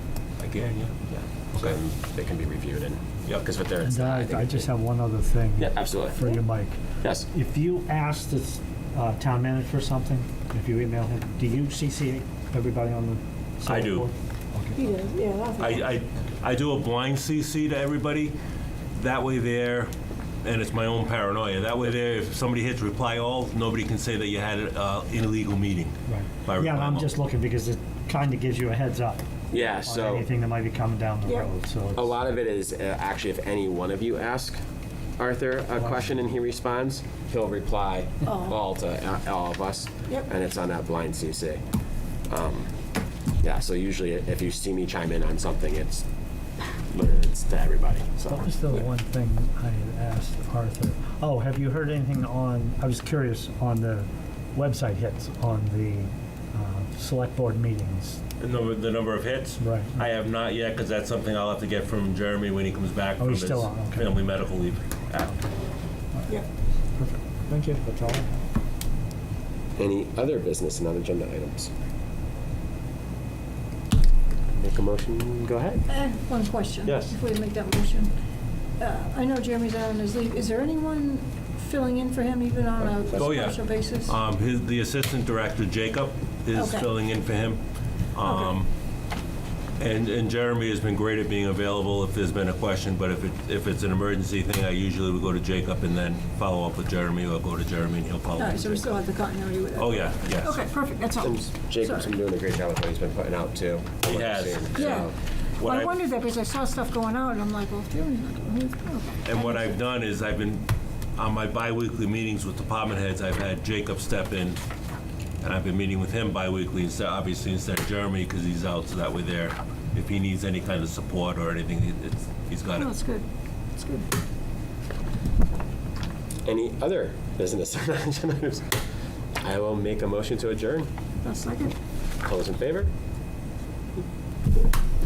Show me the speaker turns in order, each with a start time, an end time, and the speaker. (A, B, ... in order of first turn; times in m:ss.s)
0:00.4-0:00.9 A
0:01.1-0:04.7 B
0:03.8-0:14.8 C
0:05.6-0:06.2 B
0:07.0-0:07.3 B
0:13.6-0:14.1 A
0:14.8-0:15.9 D
0:15.6-0:18.4 A
0:19.0-0:19.9 A
0:20.4-0:27.1 A
0:26.1-0:32.1 C
0:29.5-0:30.3 B
0:32.0-0:34.6 B
0:35.2-0:41.6 B
0:38.3-0:38.6 D
0:42.3-0:42.7 B
0:43.4-0:46.0 B
0:46.9-0:48.5 B
0:48.3-0:58.2 C
0:58.4-1:05.4 A
0:59.6-1:00.0 C
1:03.2-1:04.3 C
1:07.0-1:08.4 C
1:09.8-1:11.7 B
1:14.5-1:15.9 B
1:15.9-1:18.1 D
1:16.8-1:17.2 B
1:18.8-1:24.2 D
1:22.8-1:23.5 B
1:23.2-1:27.6 A
1:26.6-1:26.9 D
1:28.1-1:28.7 A
1:29.8-1:39.0 A
1:38.4-1:42.1 D
1:39.8-1:40.6 A
1:41.2-1:45.1 B
1:44.0-1:45.0 A
1:44.7-1:49.8 D
1:45.6-1:46.0 A
1:49.2-1:54.6 A
1:55.4-2:03.0 A
2:02.7-2:04.1 D
2:06.4-2:08.8 B
2:09.4-2:10.9 B
2:11.2-2:11.8 D
2:12.2-2:12.9 B